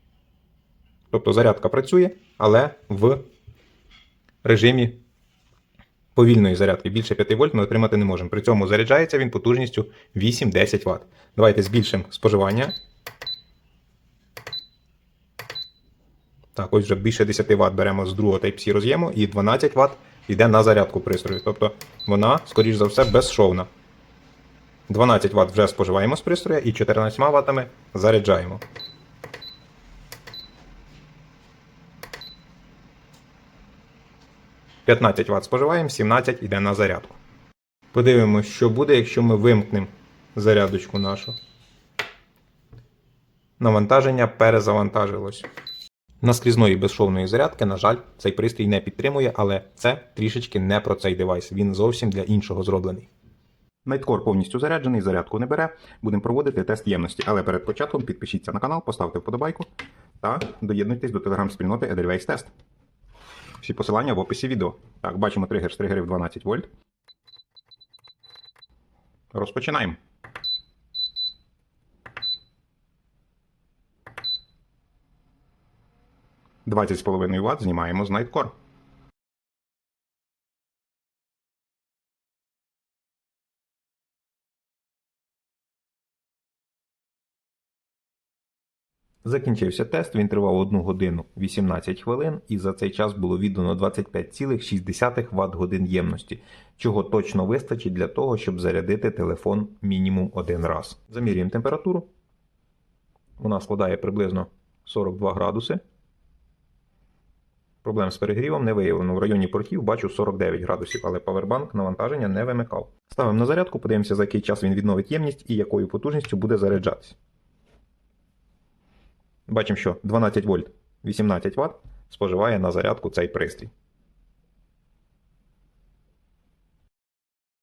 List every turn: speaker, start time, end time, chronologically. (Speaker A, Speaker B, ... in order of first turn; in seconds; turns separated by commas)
Speaker A: 1.1-3.2, Speaker A: 4.4-5.0, Speaker A: 6.2-12.7, Speaker A: 16.6-23.7, Speaker A: 24.9-28.6, Speaker A: 34.9-37.2, Speaker A: 37.9-41.4, Speaker A: 43.6-45.5, Speaker A: 46.2-53.1, Speaker A: 53.9-59.7, Speaker A: 60.2-62.5, Speaker A: 63.6-66.7, Speaker A: 69.3-70.0, Speaker A: 76.7-78.5, Speaker A: 89.2-102.1, Speaker A: 103.4-105.8, Speaker A: 107.8-117.2, Speaker A: 119.5-123.7